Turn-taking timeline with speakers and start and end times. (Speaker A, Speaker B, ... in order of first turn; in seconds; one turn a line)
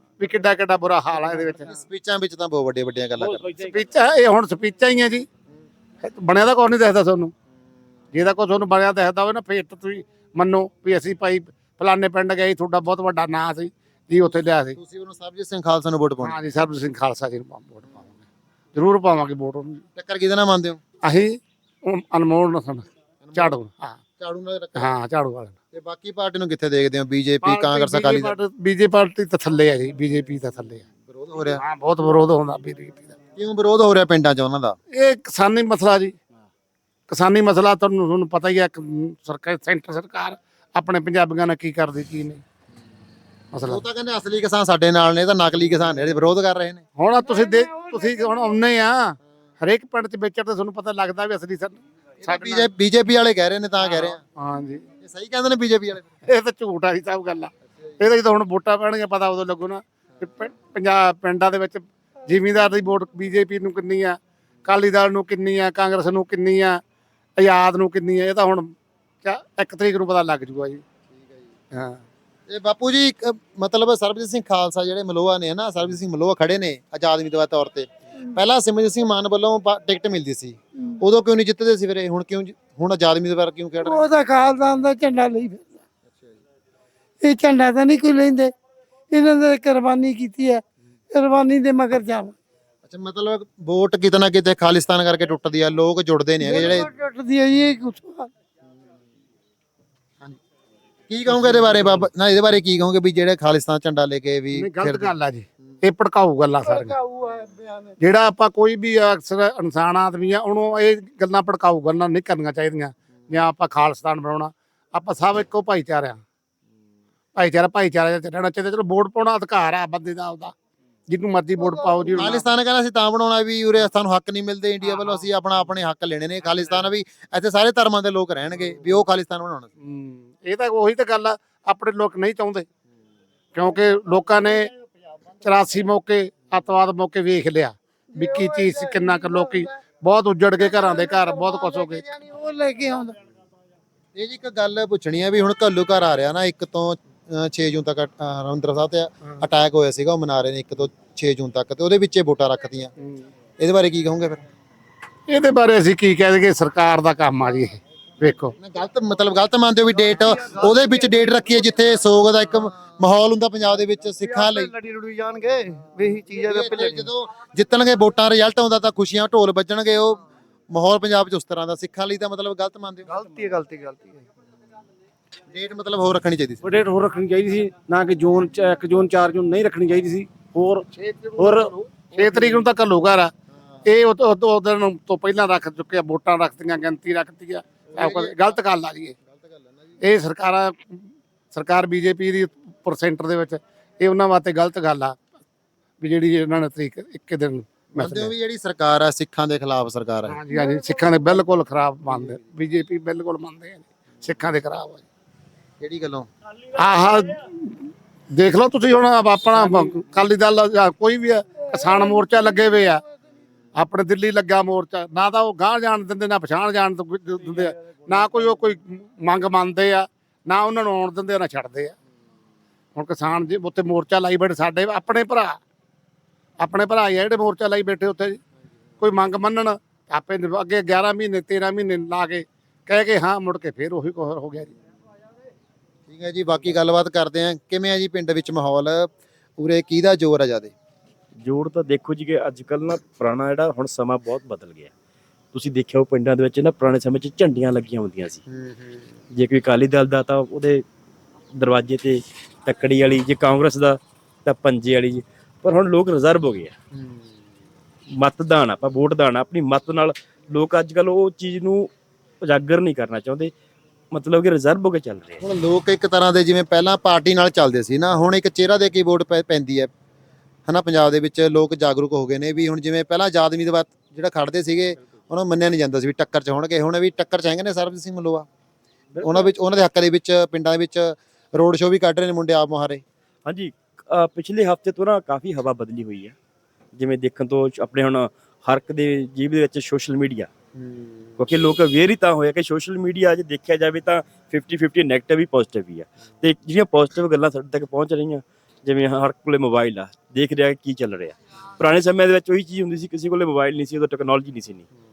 Speaker A: 0.2-1.7
Speaker B: 1.6-3.5
Speaker C: 3.2-3.8
Speaker A: 3.6-5.3
Speaker A: 6.0-7.3
Speaker A: 8.1-14.8
Speaker B: 14.7-16.4
Speaker A: 16.2-18.2
Speaker A: 18.7-19.8
Speaker B: 19.9-20.8
Speaker A: 21.0-21.3
Speaker A: 21.8-24.0
Speaker B: 23.2-23.6
Speaker B: 24.2-24.9
Speaker A: 24.8-25.5
Speaker B: 25.7-28.3
Speaker A: 27.4-30.9
Speaker B: 31.0-31.6
Speaker A: 31.6-33.1
Speaker B: 33.4-34.8
Speaker A: 34.9-36.1
Speaker A: 37.1-42.4
Speaker A: 43.5-43.8
Speaker B: 43.6-46.8
Speaker A: 47.0-52.7
Speaker B: 52.2-54.2
Speaker A: 53.8-54.8
Speaker B: 55.0-56.1
Speaker A: 56.3-66.8
Speaker A: 67.4-68.7
Speaker A: 69.2-70.8
Speaker A: 71.7-72.0
Speaker B: 72.5-84.0
Speaker D: 83.8-85.7
Speaker D: 87.2-88.5
Speaker D: 89.1-92.3
Speaker B: 92.8-96.9
Speaker D: 96.4-98.3
Speaker B: 101.1-105.1
Speaker A: 101.4-102.0
Speaker A: 104.5-107.0
Speaker D: 106.6-107.9
Speaker A: 108.0-116.2
Speaker A: 117.3-120.5
Speaker A: 121.1-122.4
Speaker B: 122.2-129.7
Speaker A: 129.8-132.7
Speaker A: 133.5-134.7
Speaker A: 135.4-142.1
Speaker D: 138.2-139.7
Speaker D: 140.6-143.2
Speaker B: 144.1-152.9
Speaker B: 153.6-154.4
Speaker A: 155.3-158.5
Speaker B: 158.6-164.7
Speaker E: 160.0-160.7
Speaker E: 164.2-167.1
Speaker B: 166.4-173.1
Speaker E: 173.1-174.2
Speaker B: 175.5-176.7
Speaker C: 176.6-181.7
Speaker A: 181.0-183.3
Speaker A: 183.8-189.1
Speaker B: 187.9-188.5
Speaker B: 189.3-190.0
Speaker A: 190.0-195.2
Speaker A: 196.0-198.3
Speaker B: 197.9-200.4
Speaker A: 200.3-205.0
Speaker B: 205.8-206.3
Speaker A: 206.7-213.0
Speaker A: 213.8-221.9
Speaker A: 222.9-225.6
Speaker A: 226.6-228.4
Speaker A: 229.0-234.7
Speaker B: 236.1-240.7
Speaker F: 241.4-244.9
Speaker F: 245.5-248.4
Speaker B: 248.5-249.0
Speaker F: 249.3-250.8
Speaker F: 251.5-256.7
Speaker B: 256.9-257.2
Speaker F: 258.2-261.9
Speaker F: 262.4-263.5
Speaker F: 264.1-265.4
Speaker B: 265.4-269.9
Speaker B: 270.7-278.5
Speaker F: 279.1-279.4
Speaker B: 279.2-283.0
Speaker F: 283.4-286.3
Speaker F: 286.9-290.5
Speaker F: 291.4-304.9